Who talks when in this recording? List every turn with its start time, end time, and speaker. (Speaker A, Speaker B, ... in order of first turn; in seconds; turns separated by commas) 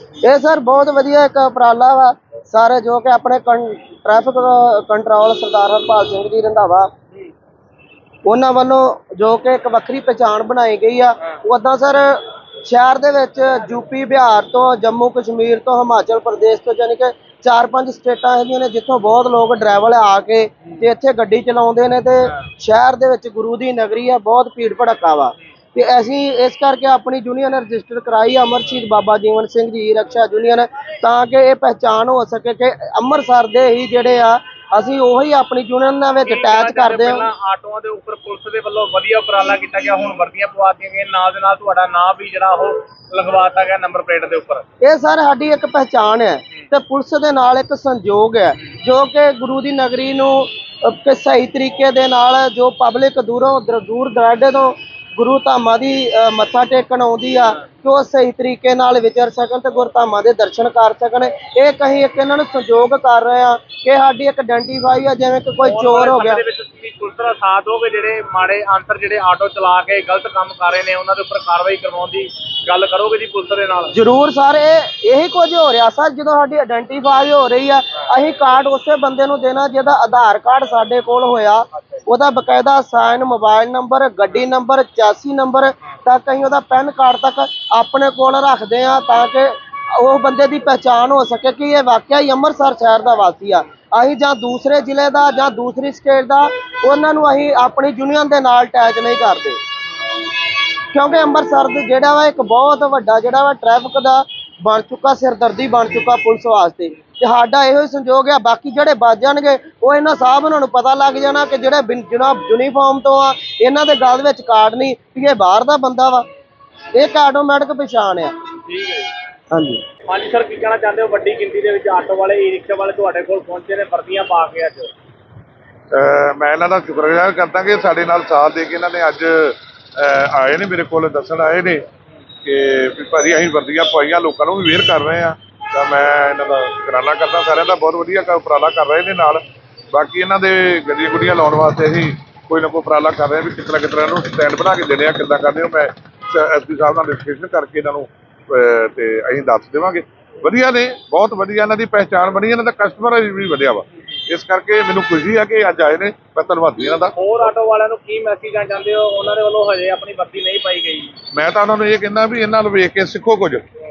Speaker A: 0.2-6.9, Speaker A: 8.2-37.3, Speaker B: 36.2-44.6, Speaker A: 44.8-66.4, Speaker B: 65.6-73.9, Speaker A: 73.9-99.6, Speaker A: 100.9-116.3, Speaker A: 116.9-118.3, Speaker B: 118.7-119.1, Speaker A: 119.5-119.8, Speaker B: 120.1-124.9, Speaker C: 125.9-131.8, Speaker C: 132.4-157.2, Speaker B: 157.2-161.1, Speaker C: 161.3-163.7